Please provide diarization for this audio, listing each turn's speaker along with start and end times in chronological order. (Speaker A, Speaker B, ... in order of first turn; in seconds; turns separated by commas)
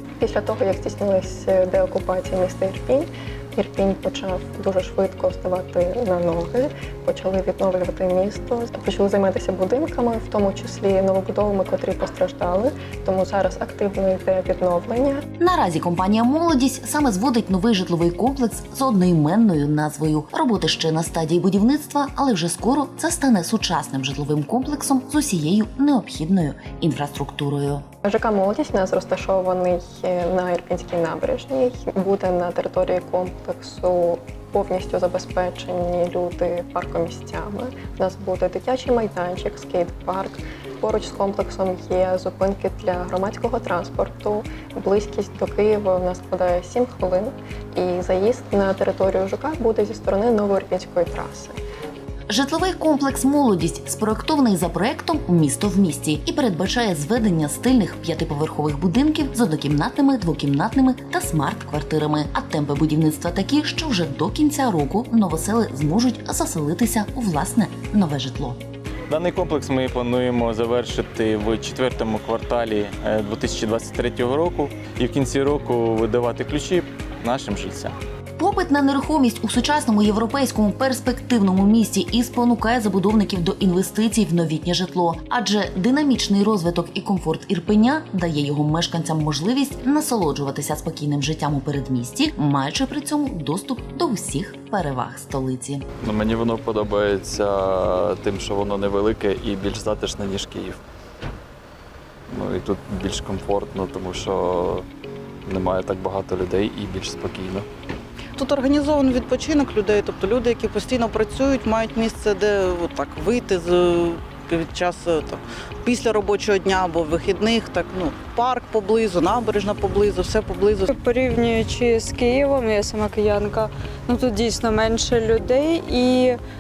Speaker A: 0.2-15.2, Speaker B: 15.4-27.8, Speaker A: 28.0-51.6, Speaker B: 52.3-68.6, Speaker C: 69.1-77.9, Speaker B: 78.4-95.8, Speaker D: 96.0-100.8, Speaker D: 102.3-104.8, Speaker D: 105.5-107.7, Speaker E: 108.3-120.9, Speaker F: 120.9-126.4